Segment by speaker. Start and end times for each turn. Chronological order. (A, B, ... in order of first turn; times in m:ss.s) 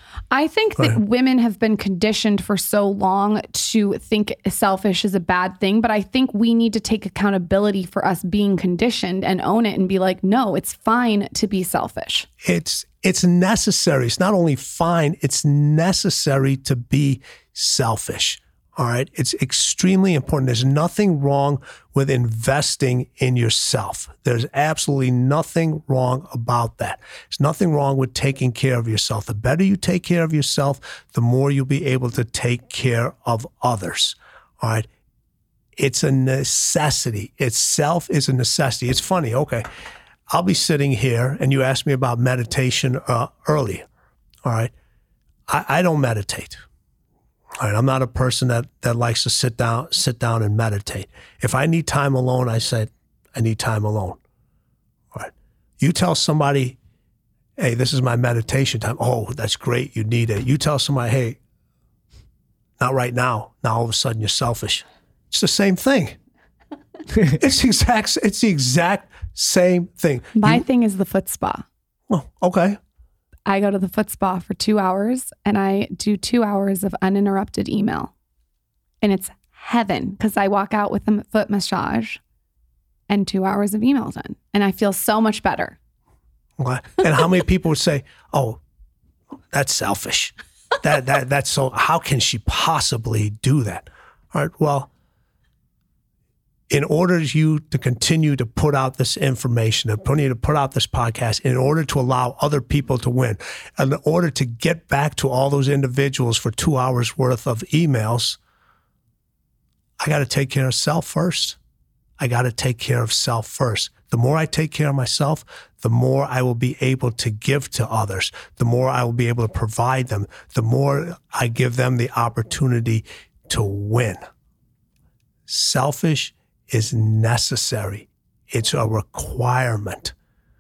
0:00.3-0:12.3 A
0:12.4-0:34.9 B
0:35.8-0:39.6 B
0:40.3-0:43.9 B
0:44.4-0:44.7 B
0:45.5-0:46.6 B
0:47.6-0:54.2 B
0:55.1-0:56.8 B
0:57.6-1:01.4 B
1:02.8-1:06.2 B
1:07.3-1:10.6 B
1:10.4-1:11.6 A
1:12.1-1:12.8 B
1:13.5-1:18.1 A
1:19.0-1:22.2 A
1:23.1-1:25.8 A
1:26.6-1:28.6 B
1:29.5-1:34.9 B
1:36.7-1:48.4 B
1:50.0-1:51.6 B
1:52.2-2:04.2 B
2:05.5-2:10.1 B